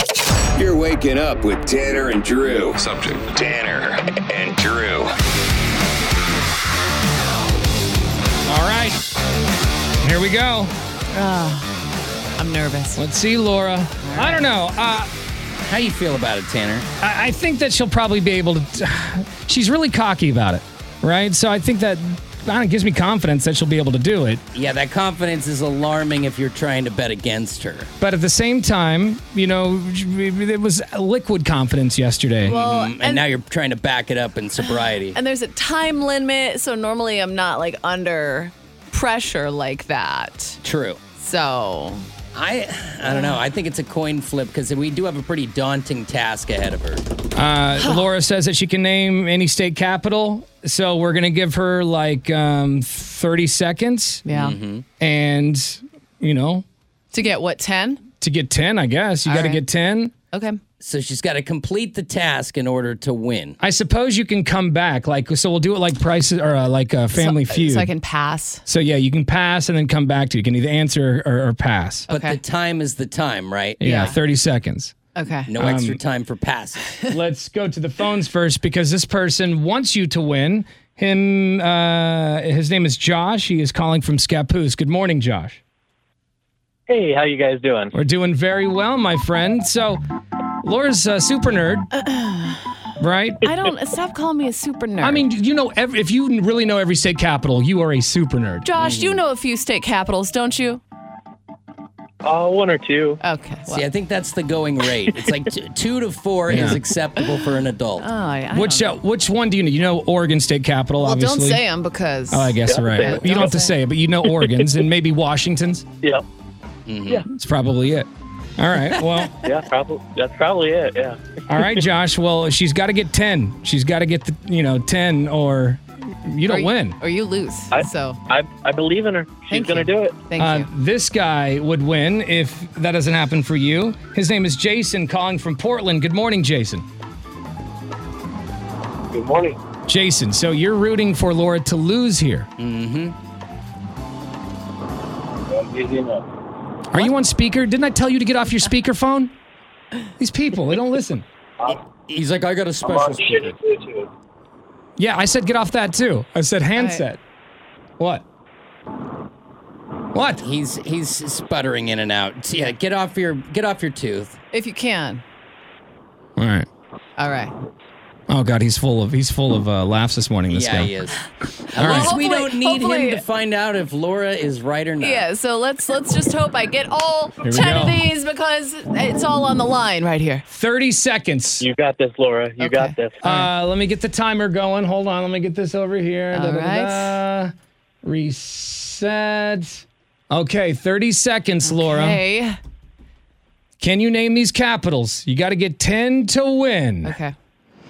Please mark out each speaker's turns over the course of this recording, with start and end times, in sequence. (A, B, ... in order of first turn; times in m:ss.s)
0:00.6-0:05.1 A
0:08.5-0:09.0 B
0:10.0-0:10.7 B
0:11.1-0:11.7 C
0:12.4-0:13.0 C
0:13.0-0:15.1 B
0:14.0-0:14.4 C
0:15.6-0:16.9 D
0:17.0-0:24.4 B
0:24.5-0:27.9 D
0:28.0-0:32.6 B
0:32.4-0:33.3 C
0:32.4-0:35.2 D
0:34.6-0:40.6 C
0:40.6-0:41.0 D
0:41.2-0:42.0 C
0:42.3-0:47.0 D
0:47.4-0:54.2 B
0:54.2-0:54.6 C
0:54.3-0:54.8 D
0:55.0-0:56.6 B
0:57.1-0:58.0 C
0:58.2-1:00.1 B
0:59.2-0:59.6 C
1:00.3-1:00.6 C
1:00.8-1:03.6 D
1:03.6-1:07.9 B
1:07.1-1:08.6 C
1:08.7-1:12.0 B
1:12.1-1:12.4 C
1:12.1-1:14.2 D
1:13.8-1:14.9 B
1:13.8-1:14.2 C
1:15.1-1:15.5 C
1:15.5-1:17.0 D
1:15.6-1:16.0 B
1:17.1-1:25.6 B
1:26.9-1:27.9 E
1:27.9-1:30.0 B
1:30.6-1:31.9 B
1:32.0-1:32.6 C
1:33.0-1:33.5 B
1:33.4-1:35.2 C
1:35.0-1:38.7 B
1:38.6-1:40.8 C
1:38.8-1:39.2 D
1:42.2-1:43.2 E
1:43.2-1:43.8 C
1:43.7-1:48.1 D
1:46.5-1:46.8 B
1:48.0-1:49.0 C
1:48.5-1:51.6 B
1:51.0-1:53.8 C
1:52.3-1:55.8 B
1:52.6-1:53.5 E
1:56.9-1:57.2 D
1:57.3-1:58.1 B
1:58.6-1:59.4 B
1:59.4-2:01.6 E
2:01.5-2:07.0 B
2:06.4-2:08.2 C
2:07.7-2:10.2 E
2:09.5-2:10.7 C
2:10.4-2:16.8 B
2:19.1-2:19.6 E
2:19.9-2:22.5 B
2:22.6-2:23.2 D
2:25.7-2:26.1 E
2:26.9-2:29.3 B
2:30.2-2:31.2 B
2:32.1-2:33.6 D
2:32.8-2:34.0 E
2:35.0-2:37.2 B
2:36.8-2:37.0 C
2:38.0-2:38.2 B
2:40.1-2:40.4 B
2:40.4-2:44.4 D
2:44.5-2:45.2 C
2:46.4-2:46.7 B
2:47.2-2:47.5 C
2:48.3-2:50.9 B
2:50.5-2:55.2 D
2:51.7-2:53.2 C
2:51.8-2:52.1 B
2:55.0-3:00.4 C
2:57.4-2:58.0 B
3:00.5-3:01.6 B
3:01.6-3:03.2 E
3:02.6-3:03.4 C
3:03.2-3:07.5 B
3:06.3-3:07.1 C
3:08.0-3:12.2 B
3:11.6-3:12.6 C
3:13.8-3:17.1 B
3:17.0-3:17.3 C